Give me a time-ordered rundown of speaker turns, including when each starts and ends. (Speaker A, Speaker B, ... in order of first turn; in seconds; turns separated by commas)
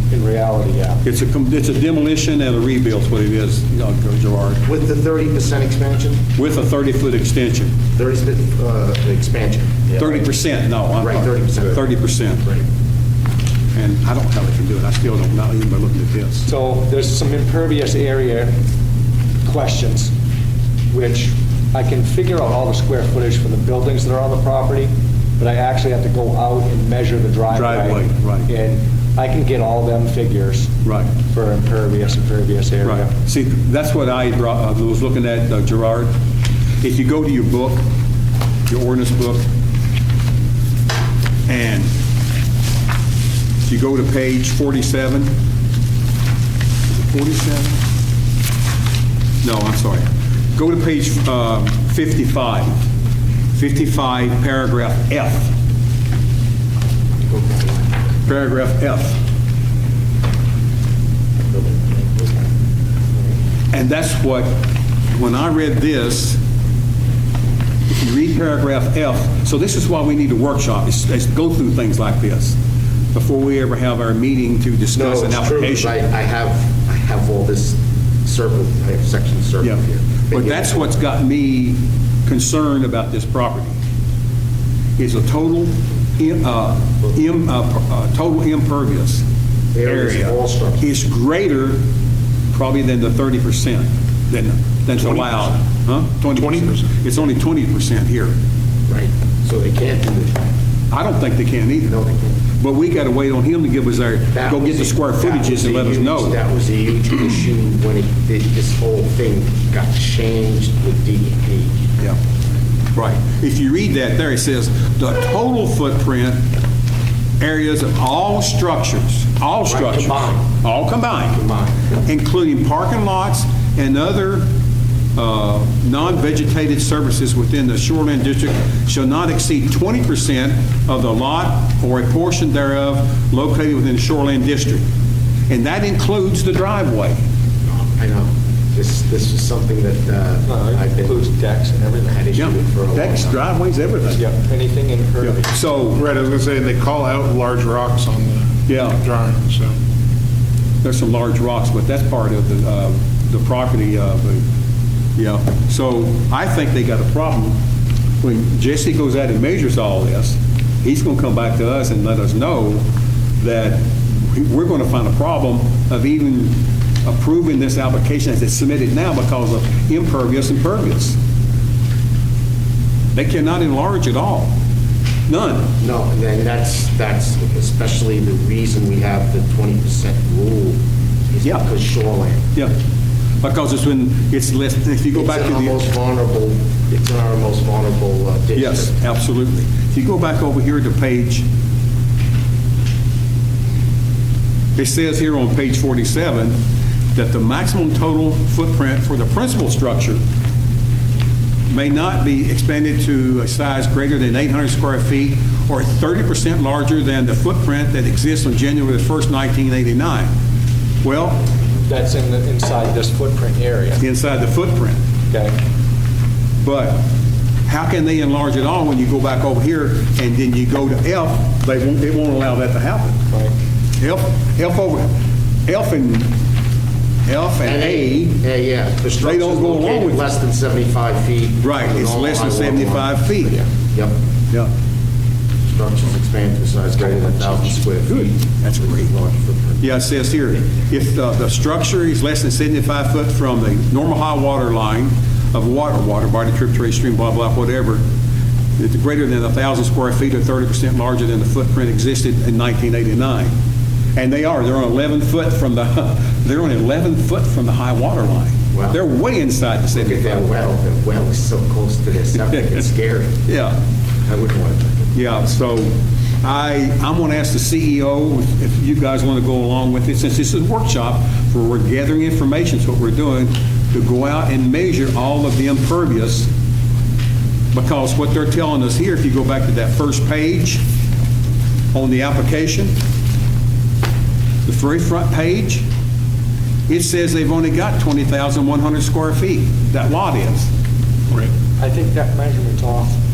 Speaker A: 0.1-1.0, Speaker B: 1.0-4.6, Speaker C: 4.7-6.2, Speaker B: 6.4-7.8, Speaker C: 8.0-10.3, Speaker B: 10.0-12.4, Speaker C: 11.0-11.9, Speaker B: 13.7-16.5, Speaker A: 16.5-18.5, Speaker A: 19.4-20.1, Speaker A: 20.9-33.1, Speaker B: 27.5-28.5, Speaker B: 30.9-31.1, Speaker B: 32.8-36.1, Speaker B: 36.8-37.8, Speaker B: 38.7-39.5, Speaker B: 41.5-41.9, Speaker B: 43.6-45.3, Speaker B: 46.9-47.8, Speaker B: 49.4-52.8, Speaker B: 53.5-55.5, Speaker C: 57.2-58.0, Speaker B: 58.3-59.2, Speaker C: 61.5-62.5, Speaker B: 63.7-66.4, Speaker B: 67.9-72.6, Speaker B: 73.1-76.0, Speaker C: 74.9-80.9, Speaker B: 79.6-83.8, Speaker B: 85.0-89.2, Speaker C: 89.7-90.9, Speaker B: 89.8-91.8, Speaker B: 92.5-98.3, Speaker D: 95.0-95.2, Speaker D: 96.3-96.9, Speaker C: 98.9-100.4, Speaker B: 100.9-101.9, Speaker C: 101.9-102.4, Speaker B: 102.6-106.4, Speaker C: 104.3-111.9, Speaker B: 112.9-116.4, Speaker B: 117.4-121.4, Speaker C: 119.7-120.5, Speaker C: 121.3-121.8, Speaker B: 122.0-124.5, Speaker B: 125.2-134.8, Speaker B: 135.5-137.2, Speaker C: 137.7-141.3, Speaker A: 140.5-142.1, Speaker C: 141.9-143.4, Speaker B: 142.4-144.2, Speaker A: 144.1-145.6, Speaker B: 145.2-146.0, Speaker D: 145.9-149.8, Speaker B: 148.7-149.0, Speaker B: 150.8-154.4, Speaker B: 155.2-157.6, Speaker B: 158.2-162.9, Speaker B: 163.4-171.2, Speaker B: 173.1-174.5, Speaker B: 175.3-175.7, Speaker C: 175.8-180.8, Speaker C: 181.3-182.4, Speaker B: 183.4-185.8, Speaker C: 185.1-188.9, Speaker B: 188.6-191.4, Speaker B: 194.8-196.6, Speaker B: 197.1-200.2, Speaker B: 201.7-210.3, Speaker B: 211.0-211.4, Speaker A: 211.9-214.0, Speaker B: 214.0-215.0, Speaker A: 215.3-215.6, Speaker B: 216.6-217.1, Speaker B: 217.7-223.2, Speaker B: 224.0-225.1, Speaker B: 225.7-226.3, Speaker B: 227.3-228.4, Speaker C: 227.6-234.2, Speaker B: 229.2-230.3, Speaker B: 231.6-233.6, Speaker C: 235.7-239.8, Speaker B: 237.0-239.1, Speaker B: 239.8-248.0, Speaker B: 248.8-253.5, Speaker B: 254.2-260.5, Speaker C: 258.7-259.0, Speaker C: 259.9-263.4, Speaker B: 262.5-262.8, Speaker B: 263.5-263.8, Speaker C: 264.2-265.2, Speaker B: 265.1-276.5, Speaker B: 277.7-280.8, Speaker B: 281.9-282.9, Speaker B: 284.7-285.8, Speaker B: 286.9-290.7, Speaker A: 291.8-293.2